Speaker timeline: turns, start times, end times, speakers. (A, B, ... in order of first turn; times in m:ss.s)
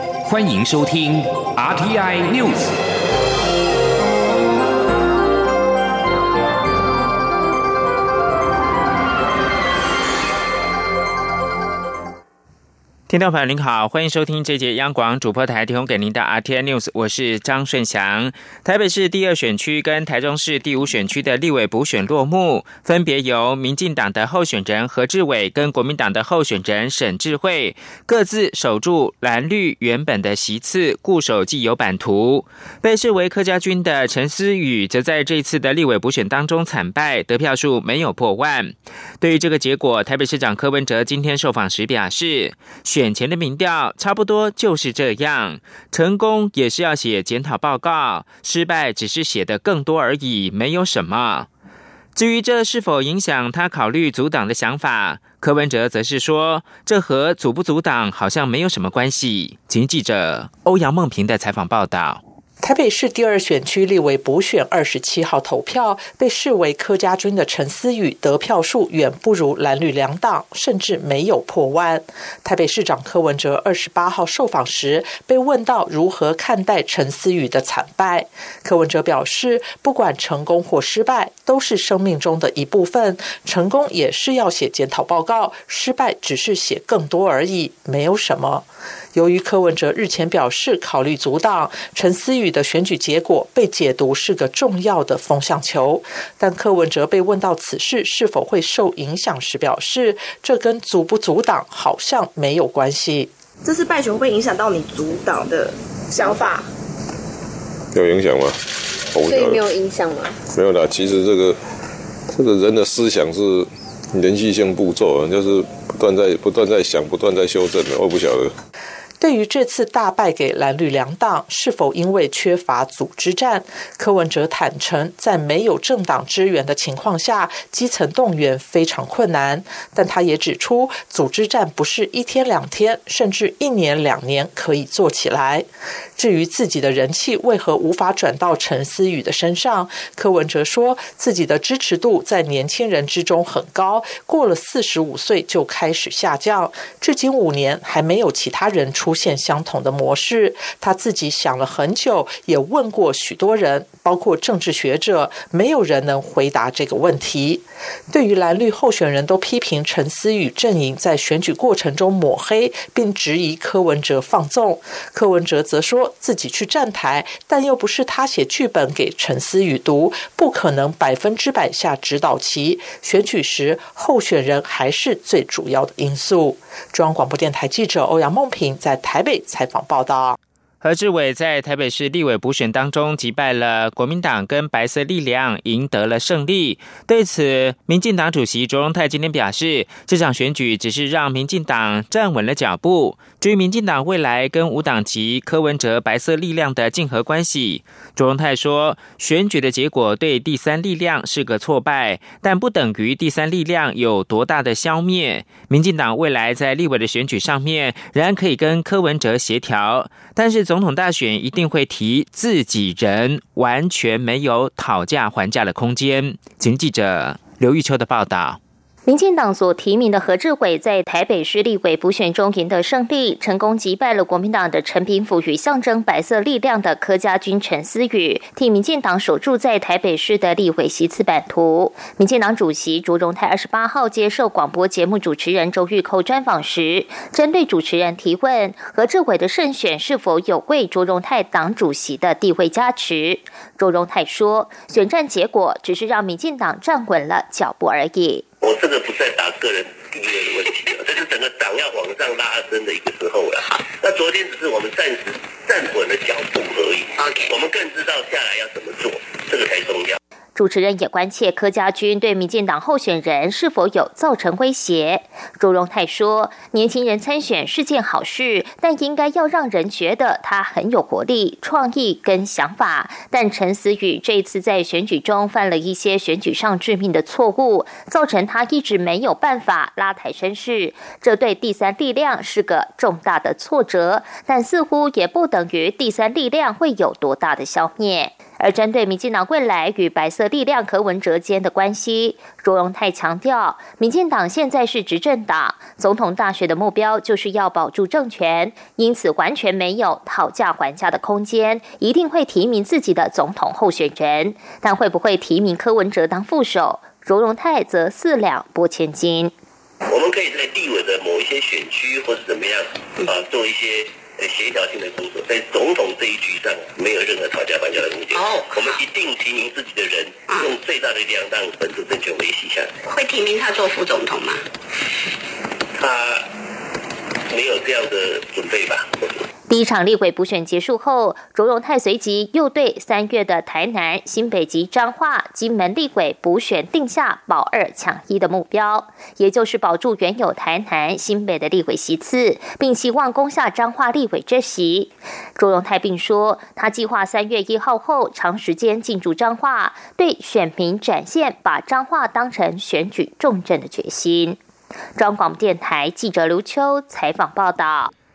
0:00.3-0:02.8 A
0:13.1-0:51.5 B
0:52.2-1:02.2 B
1:02.6-1:43.3 C
1:43.6-1:46.7 D
1:47.9-1:48.6 E
1:49.1-1:49.7 E
1:49.3-1:50.4 D
1:50.5-1:51.6 E
1:52.3-1:58.6 E
1:59.2-3:00.4 C
3:00.8-3:38.6 B
3:39.1-4:08.4 F
4:08.6-4:20.2 G
4:17.2-4:17.5 H
4:20.6-5:09.5 F
5:10.1-5:22.9 G
5:18.4-5:18.9 H
5:23.1-5:24.6 H
5:26.0-5:26.5 G
5:27.5-5:29.4 G
5:29.7-5:54.6 F
5:55.2-5:58.1 F